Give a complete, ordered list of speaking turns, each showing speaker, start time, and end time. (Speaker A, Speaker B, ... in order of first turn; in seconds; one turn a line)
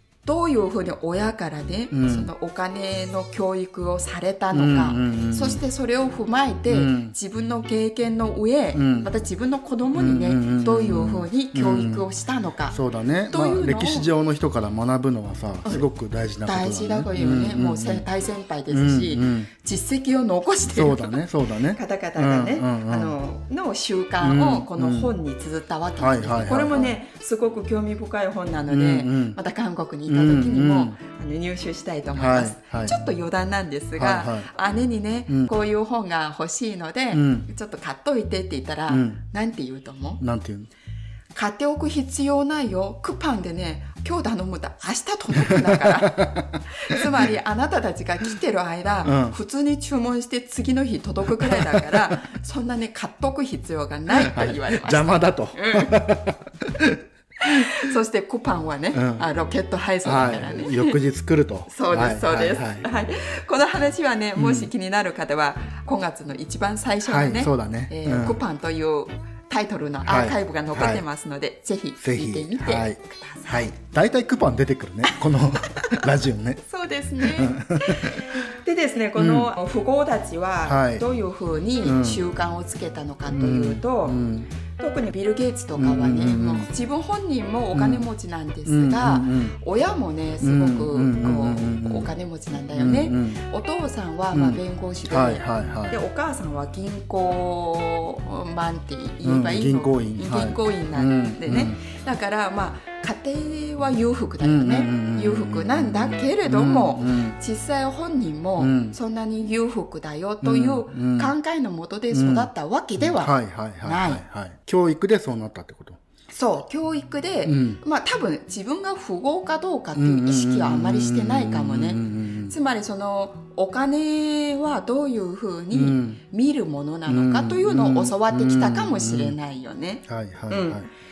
Speaker A: 0.2-12.8
Speaker B: 1.9-2.3
Speaker B: 4.5-5.6
Speaker B: 6.7-7.1
Speaker B: 8.7-9.1
Speaker B: 9.9-12.0
Speaker B: 12.7-18.1
Speaker A: 13.3-14.1
Speaker A: 16.4-21.2
Speaker B: 18.7-19.5
Speaker B: 20.7-23.1
Speaker A: 21.7-40.2
Speaker B: 24.2-25.1
Speaker B: 26.0-27.0
Speaker B: 28.7-29.4
Speaker B: 30.1-30.9
Speaker B: 32.1-32.9
Speaker B: 34.0-34.5
Speaker B: 37.1-37.4
Speaker B: 38.9-39.2
Speaker B: 40.2-40.7
Speaker A: 41.3-56.0
Speaker B: 45.5-47.2
Speaker B: 49.0-49.4
Speaker B: 51.4-52.1
Speaker B: 54.2-57.9
Speaker A: 57.4-61.0
Speaker B: 58.9-59.2
Speaker B: 60.0-62.9
Speaker A: 61.7-73.7
Speaker B: 64.4-64.7
Speaker B: 67.0-68.4
Speaker B: 70.0-71.0
Speaker B: 72.0-76.6
Speaker A: 75.7-76.0
Speaker A: 76.6-84.2
Speaker B: 77.2-78.4
Speaker B: 79.2-79.5
Speaker B: 80.6-81.0
Speaker B: 81.8-82.2
Speaker B: 83.3-84.5
Speaker A: 84.8-114.2
Speaker B: 85.8-86.7
Speaker B: 87.7-88.0
Speaker B: 88.7-89.5
Speaker B: 90.4-92.1
Speaker B: 92.7-93.4
Speaker B: 94.3-96.0
Speaker B: 99.2-101.8
Speaker B: 104.4-107.3
Speaker B: 108.6-109.0
Speaker B: 110.4-111.3
Speaker B: 112.1-116.0
Speaker A: 116.3-130.8
Speaker B: 117.4-117.8
Speaker B: 120.0-122.5
Speaker B: 125.7-126.2
Speaker B: 127.1-129.3
Speaker B: 130.1-130.9